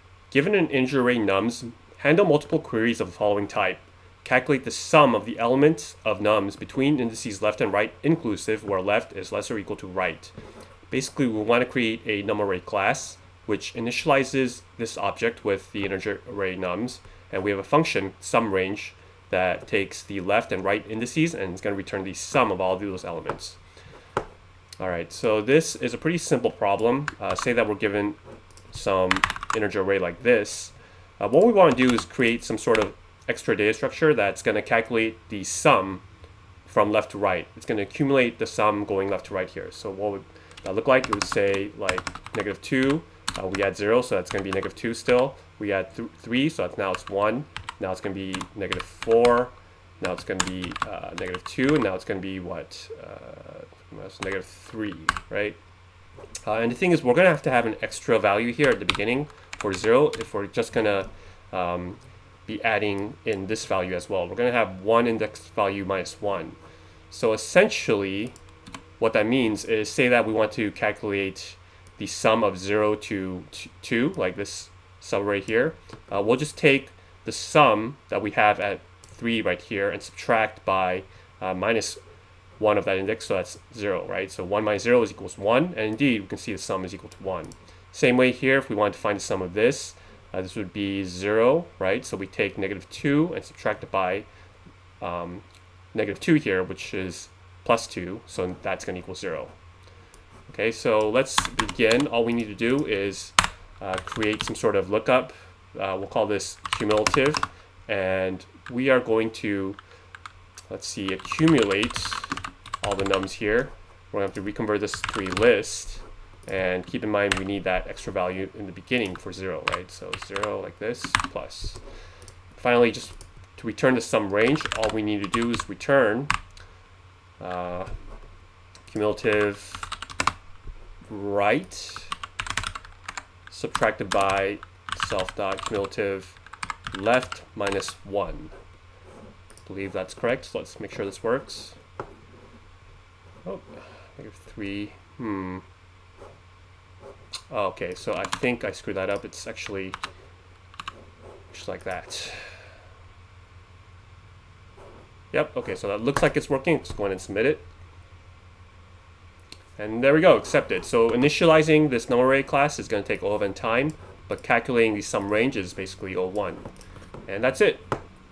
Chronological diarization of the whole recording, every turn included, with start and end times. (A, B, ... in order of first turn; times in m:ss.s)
0:00.3-0:10.3 A
0:10.9-0:23.6 A
0:24.8-0:28.2 A
0:28.7-0:36.0 A
0:36.7-0:55.6 A
0:56.4-1:06.6 A
1:07.1-1:08.4 A
1:09.0-1:22.0 A
1:22.6-1:34.3 A
1:35.0-1:39.5 A
1:40.5-1:49.8 A
1:50.7-2:01.8 A
2:02.6-2:06.3 A
2:07.4-2:07.9 A
2:08.9-2:09.9 A
2:11.1-2:12.1 A
2:13.5-2:16.4 A
2:16.9-2:18.5 A
2:19.7-2:21.8 A
2:23.4-2:25.6 A
2:27.5-2:30.0 A
2:31.5-2:32.5 A
2:35.3-2:37.7 A
2:39.8-2:46.7 A
2:47.3-2:47.9 A